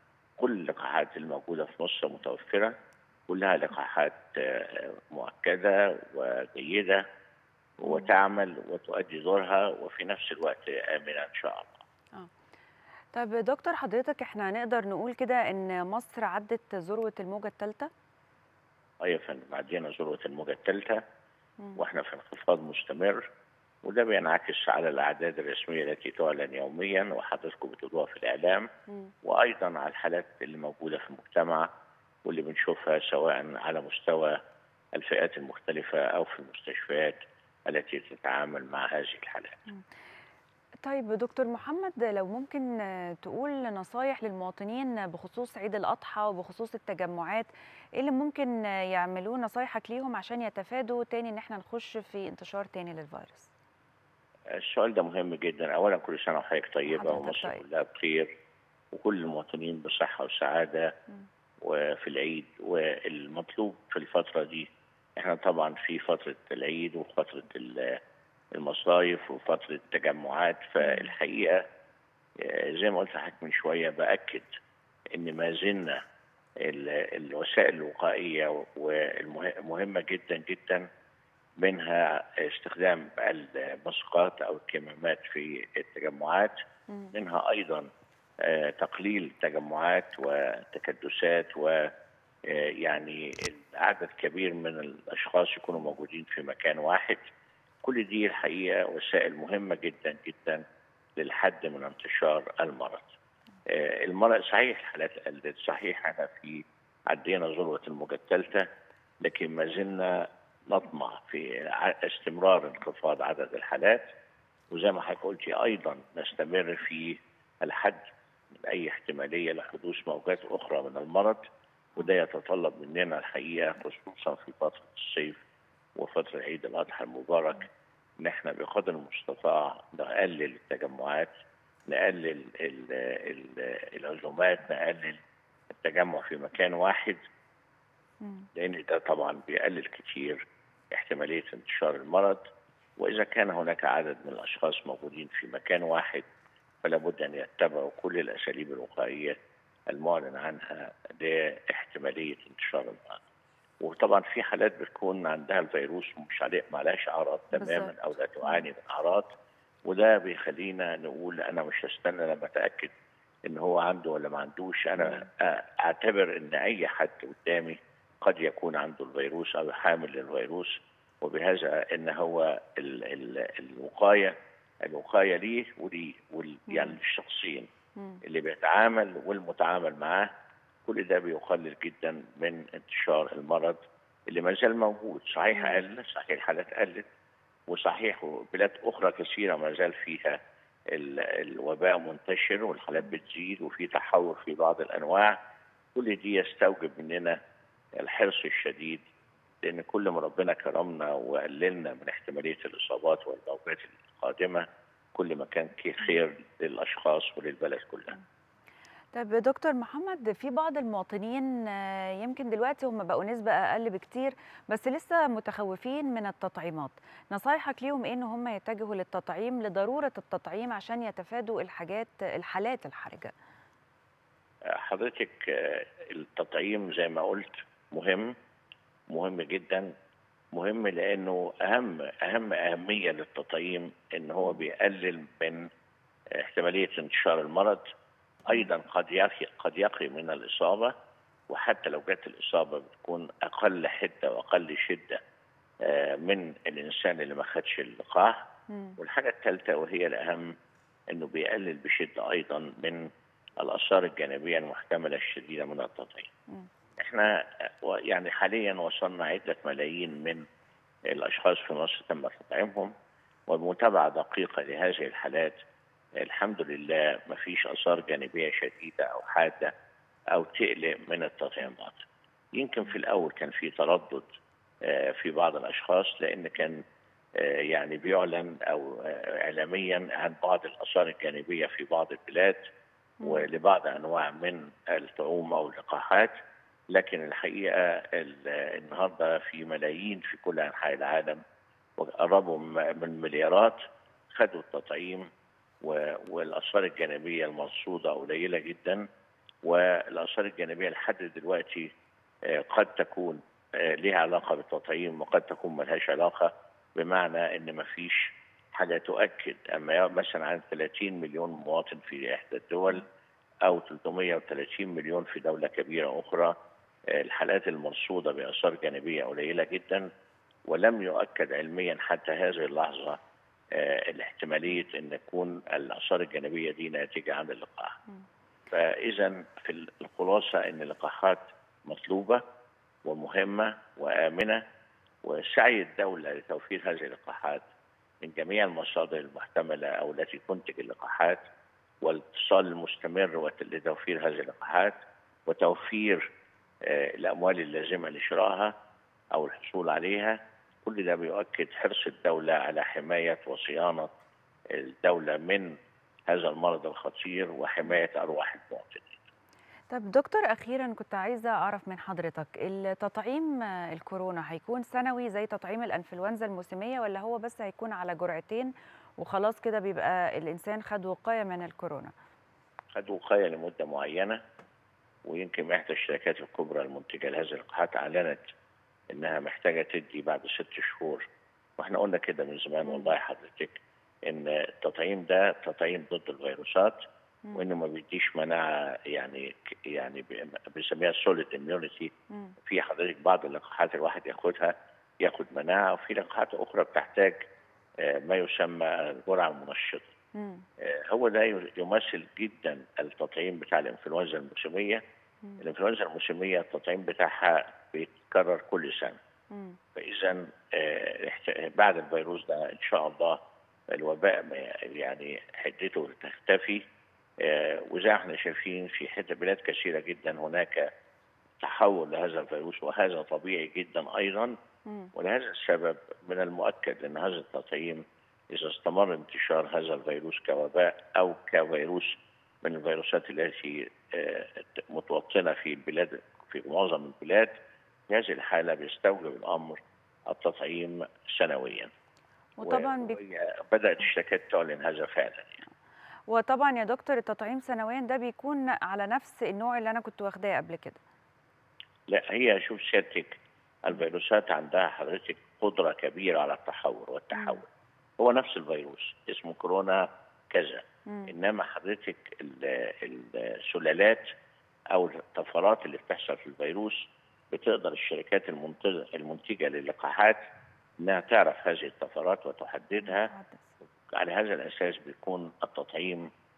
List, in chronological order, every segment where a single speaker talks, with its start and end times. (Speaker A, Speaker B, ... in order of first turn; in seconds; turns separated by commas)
Speaker A: 0.4-2.7, Speaker A: 3.3-7.0, Speaker A: 7.8-11.8, Speaker B: 7.8-8.1, Speaker B: 13.1-17.9, Speaker A: 19.0-21.0, Speaker A: 21.8-23.3, Speaker A: 23.9-28.7, Speaker A: 29.2-31.7, Speaker A: 32.2-34.4, Speaker A: 35.0-39.6, Speaker B: 40.8-47.5, Speaker B: 48.0-53.5, Speaker A: 54.6-58.3, Speaker B: 56.9-57.6, Speaker A: 58.9-60.9, Speaker A: 61.6-64.7, Speaker A: 65.2-68.0, Speaker A: 68.6-71.6, Speaker B: 70.8-71.1, Speaker A: 72.4-74.5, Speaker A: 75.1-76.0, Speaker A: 76.6-80.9, Speaker A: 81.6-86.5, Speaker A: 87.1-87.9, Speaker A: 88.4-91.9, Speaker A: 92.5-97.2, Speaker A: 97.8-100.6, Speaker A: 101.2-103.1, Speaker A: 103.7-108.7, Speaker A: 109.2-114.1, Speaker A: 114.7-118.0, Speaker A: 118.5-121.4, Speaker A: 122.0-125.4, Speaker A: 126.0-127.7, Speaker A: 128.2-131.3, Speaker A: 131.9-135.2, Speaker A: 135.8-137.2, Speaker B: 138.2-138.5, Speaker A: 138.6-140.4, Speaker A: 140.9-142.4, Speaker A: 143.0-146.2, Speaker A: 146.8-149.4, Speaker A: 149.9-153.2, Speaker A: 153.8-159.3, Speaker B: 157.6-157.9, Speaker A: 159.9-162.9, Speaker A: 163.5-177.7, Speaker B: 165.0-165.3, Speaker B: 176.7-177.0, Speaker B: 178.0-178.2, Speaker A: 178.2-180.3, Speaker A: 180.9-183.8, Speaker A: 184.3-187.1, Speaker B: 185.5-185.8, Speaker A: 187.7-190.4, Speaker A: 190.9-195.4, Speaker A: 195.9-197.4, Speaker A: 198.0-199.0, Speaker A: 199.6-208.2, Speaker B: 209.1-223.3, Speaker A: 224.8-228.3, Speaker A: 229.1-229.9, Speaker A: 230.6-235.7, Speaker A: 236.4-237.8, Speaker A: 238.5-240.9, Speaker A: 241.5-245.2, Speaker A: 245.8-248.4, Speaker B: 248.7-249.0, Speaker A: 249.0-250.5, Speaker A: 251.1-253.1, Speaker A: 253.6-256.3, Speaker A: 257.0-257.3, Speaker A: 257.8-260.4, Speaker A: 261.1-262.9, Speaker A: 263.5-265.6, Speaker A: 266.2-269.7, Speaker A: 270.3-272.0, Speaker A: 272.6-274.3, Speaker A: 274.9-276.8, Speaker A: 277.4-282.6, Speaker B: 283.2-283.5, Speaker A: 283.2-286.3, Speaker A: 286.9-291.4, Speaker A: 292.0-293.8, Speaker A: 294.4-295.3, Speaker A: 295.8-299.0, Speaker A: 299.6-301.9, Speaker A: 302.5-308.3, Speaker A: 308.8-313.1, Speaker A: 313.7-316.6, Speaker A: 317.1-320.1, Speaker A: 320.7-323.2, Speaker A: 323.8-328.0, Speaker A: 328.7-332.4, Speaker A: 333.1-334.6, Speaker A: 335.2-337.6, Speaker A: 338.2-341.4, Speaker A: 342.0-346.2, Speaker A: 346.9-348.7, Speaker A: 349.3-354.1, Speaker A: 354.7-355.8, Speaker A: 356.3-359.2, Speaker B: 359.9-372.1, Speaker A: 372.9-374.4, Speaker A: 375.2-378.4, Speaker A: 379.1-381.3, Speaker A: 381.8-387.0, Speaker B: 382.9-383.1, Speaker A: 387.6-392.1, Speaker A: 392.6-397.4, Speaker A: 398.0-400.1, Speaker B: 400.4-400.6, Speaker A: 400.8-405.0, Speaker A: 405.6-409.2, Speaker B: 409.5-409.8, Speaker A: 409.9-413.4, Speaker A: 413.9-416.8, Speaker A: 417.4-420.9, Speaker A: 421.6-424.6, Speaker A: 425.1-437.5, Speaker A: 438.1-441.9, Speaker B: 442.6-443.2, Speaker A: 442.7-445.6, Speaker B: 446.3-451.0, Speaker A: 452.1-457.7, Speaker B: 457.4-457.6, Speaker A: 458.2-464.3, Speaker B: 461.1-461.3, Speaker A: 464.9-470.4, Speaker A: 471.0-473.3, Speaker B: 473.0-473.7, Speaker A: 474.1-476.3